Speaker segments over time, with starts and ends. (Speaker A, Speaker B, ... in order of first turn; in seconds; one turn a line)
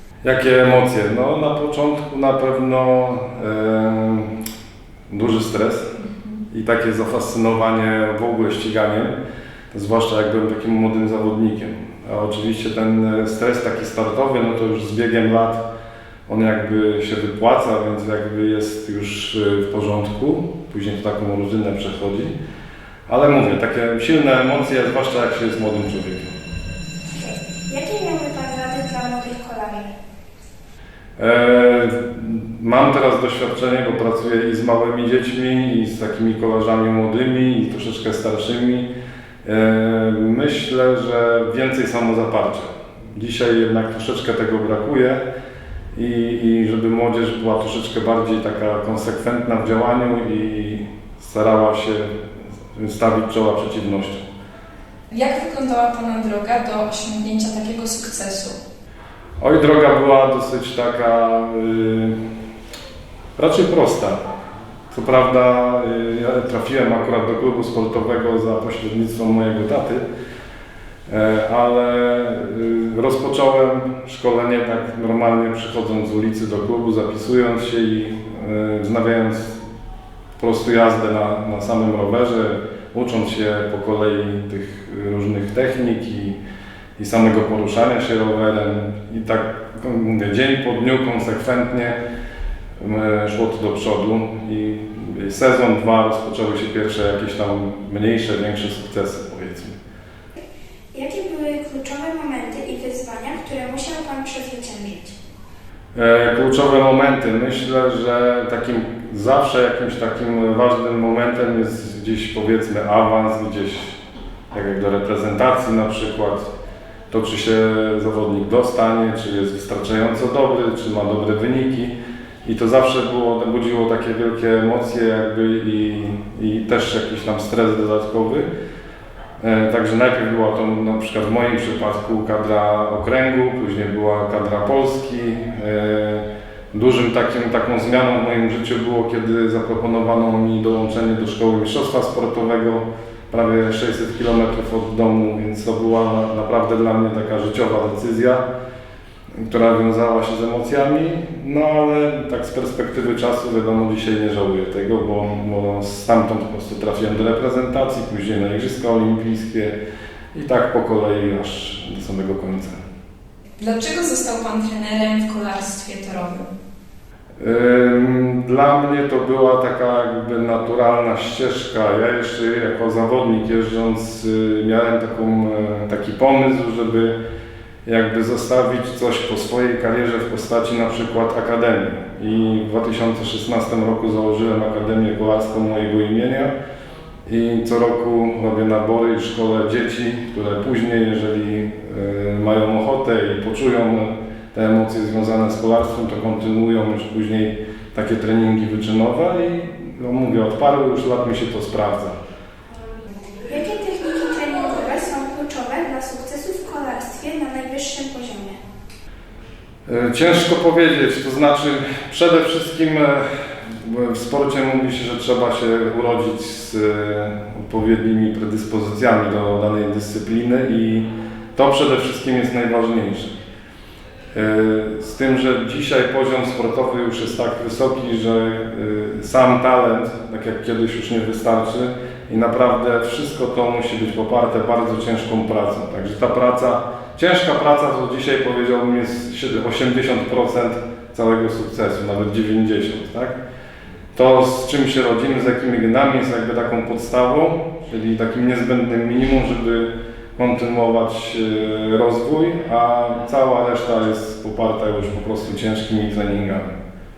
Speaker A: 0.2-4.3
Speaker A: 5.1-5.9
Speaker A: 6.5-9.1
Speaker A: 9.7-15.6
Speaker A: 16.3-22.3
Speaker A: 23.1-26.3
Speaker B: 27.1-29.9
Speaker A: 31.2-38.9
Speaker A: 39.4-45.2
Speaker A: 45.9-52.1
Speaker A: 52.7-54.2
Speaker C: 55.1-58.6
Speaker A: 59.4-62.1
Speaker A: 63.4-64.2
Speaker A: 64.9-70.0
Speaker A: 71.1-79.6
Speaker A: 80.4-86.4
Speaker A: 87.0-92.0
Speaker A: 92.8-99.7
Speaker B: 100.9-105.2
Speaker A: 105.9-114.0
Speaker A: 114.5-116.5
Speaker A: 117.1-128.5
Speaker A: 129.4-148.4
Speaker A: 149.4-159.7
Speaker A: 160.3-162.8
Speaker C: 163.6-166.5
Speaker A: 167.4-177.2
Speaker A: 177.8-186.5
Speaker A: 187.3-202.1
Speaker B: 203.5-208.6
Speaker A: 209.8-223.3
Speaker A: 224.3-243.4
Speaker A: 244.1-256.7